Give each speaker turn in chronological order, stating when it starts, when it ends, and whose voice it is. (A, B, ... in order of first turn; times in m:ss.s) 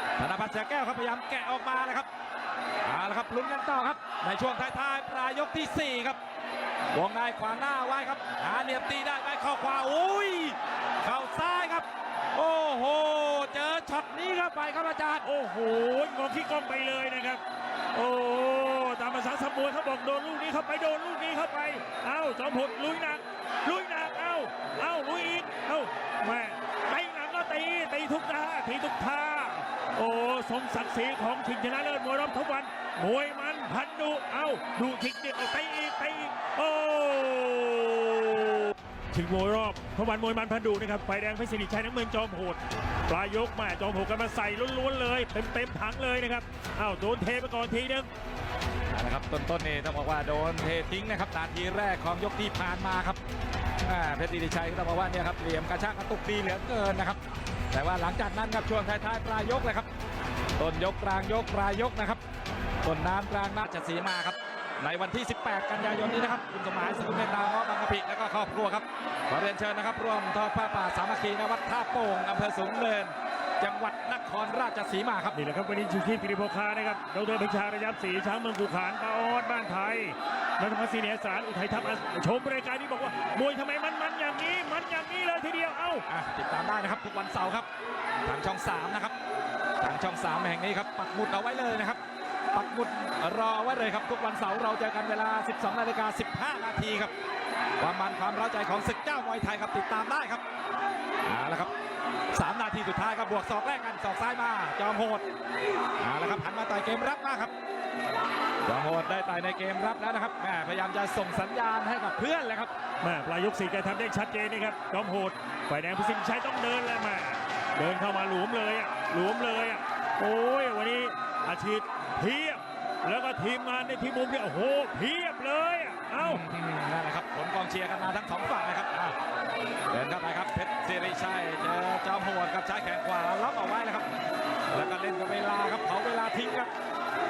0:00.2-0:02.1 A
0:02.8-0:06.2 A
0:06.9-0:15.3 A
0:15.2-0:17.4 B
0:17.9-0:48.1 B
0:48.9-0:53.2 A
0:53.9-0:57.2 A
0:57.7-0:59.9 A
1:00.6-1:02.2 A
1:02.8-1:15.4 A
1:15.3-1:26.0 B
1:26.1-1:27.7 A
1:28.3-1:29.2 A
1:29.8-1:32.0 A
1:32.5-1:37.1 A
1:37.8-1:40.4 A
1:41.2-1:41.7 A
1:42.3-1:45.2 A
1:46.0-1:47.5 A
1:48.6-1:52.7 A
1:53.0-2:06.4 B
2:06.2-2:09.2 A
2:09.9-2:14.1 A
2:14.7-2:16.7 A